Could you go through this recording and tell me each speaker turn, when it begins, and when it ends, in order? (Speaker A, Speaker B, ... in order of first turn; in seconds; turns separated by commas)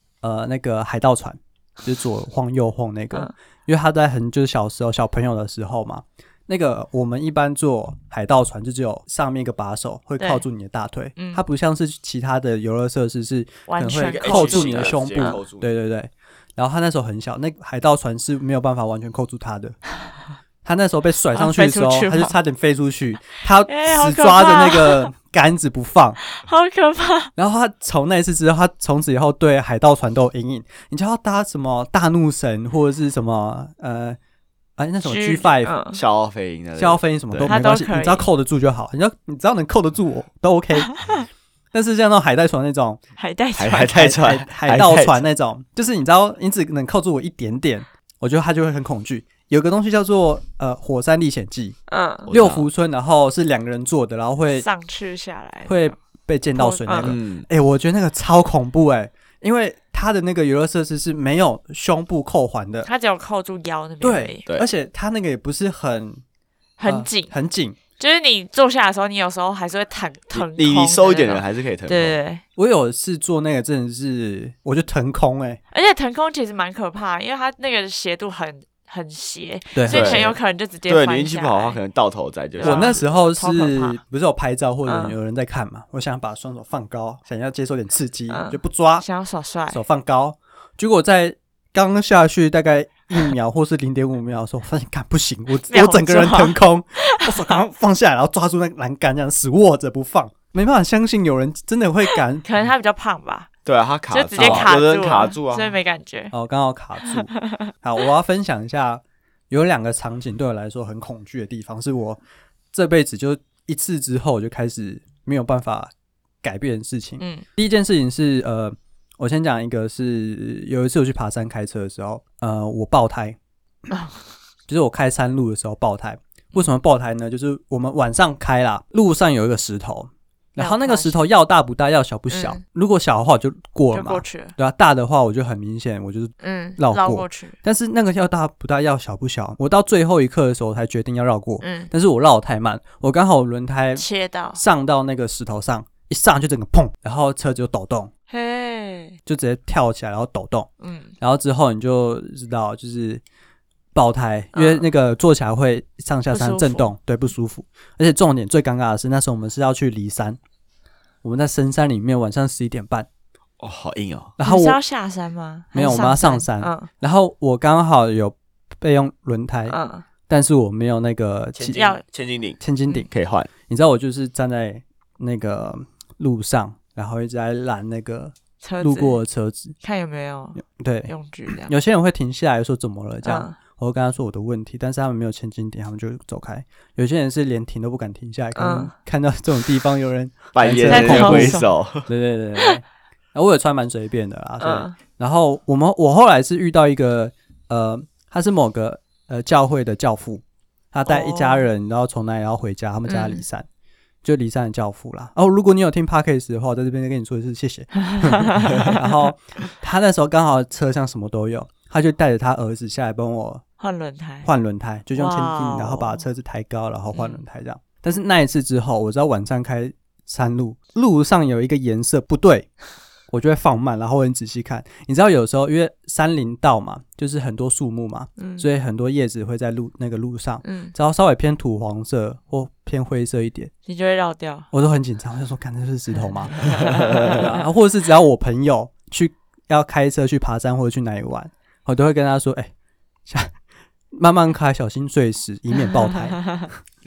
Speaker A: 0.2-19.8, Speaker B: 10.2-10.4, Speaker B: 11.2-11.4, Speaker B: 13.7-15.4, Speaker C: 14.0-15.7, Speaker A: 20.6-26.2, Speaker B: 21.3-22.4, Speaker B: 23.7-25.1, Speaker B: 26.3-27.3, Speaker A: 27.4-34.2, Speaker A: 34.8-35.7, Speaker B: 35.0-36.0, Speaker C: 35.9-37.5, Speaker A: 36.8-41.1, Speaker B: 37.5-38.3, Speaker A: 41.7-43.0, Speaker B: 43.2-44.0, Speaker C: 43.5-45.2, Speaker A: 43.9-51.8, Speaker B: 51.9-52.3, Speaker C: 52.3-52.7, Speaker A: 52.3-54.6, Speaker B: 54.5-56.0, Speaker A: 55.6-62.9, Speaker B: 56.5-57.1, Speaker C: 57.0-57.5, Speaker B: 62.8-64.4, Speaker A: 64.0-66.2, Speaker B: 66.8-67.3, Speaker A: 66.8-67.8, Speaker B: 68.0-72.4, Speaker C: 70.3-72.2, Speaker A: 72.5-75.6, Speaker B: 75.7-81.8, Speaker A: 79.7-80.3, Speaker C: 79.9-80.3, Speaker C: 80.9-83.0, Speaker B: 82.6-84.0, Speaker A: 82.6-89.0, Speaker B: 84.8-85.2, Speaker B: 88.3-89.8, Speaker A: 89.7-102.5, Speaker B: 95.7-97.3, Speaker B: 102.4-103.5, Speaker C: 103.6-105.8, Speaker B: 104.1-106.3, Speaker A: 104.4-104.7, Speaker A: 106.3-112.2, Speaker B: 107.3-107.7, Speaker A: 112.7-115.9, Speaker A: 116.4-123.4, Speaker B: 117.2-117.4, Speaker B: 123.9-124.2, Speaker A: 124.7-148.1, Speaker B: 130.6-131.2, Speaker B: 132.3-132.6, Speaker B: 133.9-134.6, Speaker B: 136.4-137.6, Speaker B: 141.6-141.9, Speaker B: 143.9-144.6, Speaker B: 148.3-149.2, Speaker A: 149.2-150.7, Speaker B: 150.8-151.1, Speaker A: 151.2-153.2, Speaker A: 153.9-160.4, Speaker B: 154.5-154.9, Speaker B: 156.3-156.9, Speaker A: 161.2-163.1, Speaker C: 163.6-164.3, Speaker A: 164.4-164.8, Speaker B: 164.4-166.9, Speaker A: 165.7-169.8, Speaker B: 169.7-170.0, Speaker A: 170.3-171.9, Speaker C: 171.6-172.6, Speaker B: 171.7-172.0, Speaker A: 172.6-173.1, Speaker C: 173.1-173.5, Speaker A: 173.7-179.7, Speaker B: 178.6-179.2, Speaker B: 179.8-181.7, Speaker A: 180.6-181.1, Speaker A: 181.7-203.7, Speaker B: 183.2-183.6, Speaker B: 188.6-188.9, Speaker C: 190.5-192.1, Speaker B: 190.9-191.7, Speaker B: 194.6-194.9, Speaker B: 201.1-201.7, Speaker B: 203.1-203.4, Speaker A: 204.2-213.6, Speaker B: 208.0-209.0, Speaker B: 213.8-214.5, Speaker A: 214.4-222.7, Speaker B: 215.1-216.2, Speaker B: 217.1-217.4, Speaker A: 223.3-233.7, Speaker B: 228.4-228.7, Speaker B: 230.6-230.9, Speaker B: 233.8-234.7, Speaker A: 234.7-242.7, Speaker B: 236.5-237.6, Speaker A: 243.3-243.5, Speaker A: 244.1-246.6, Speaker B: 246.1-246.7